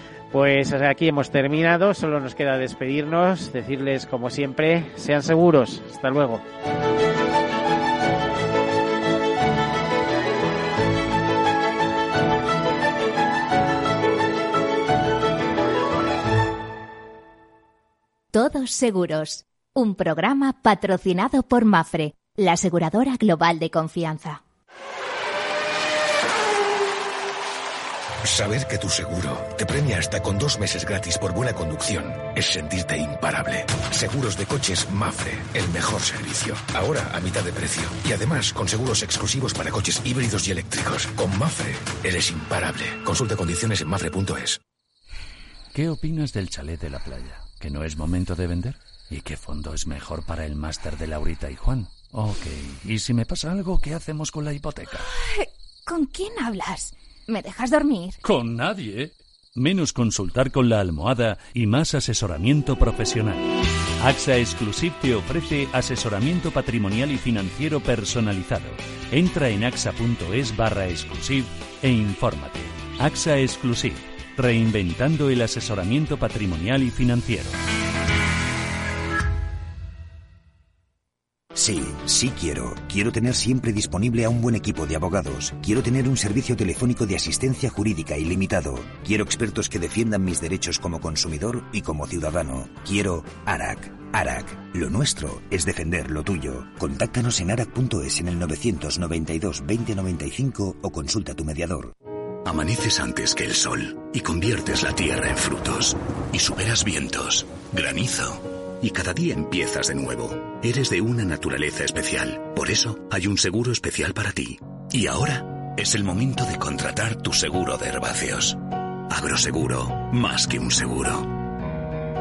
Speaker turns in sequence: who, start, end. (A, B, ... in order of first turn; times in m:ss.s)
0:00.3-0:06.4 A
0:18.3-0:24.4 B
0:28.2-0:44.6 C
0:45.7-0:55.1 D
0:55.4-0:58.2 E
0:58.2-1:17.6 D
1:21.5-1:41.9 F
1:42.4-2:01.3 G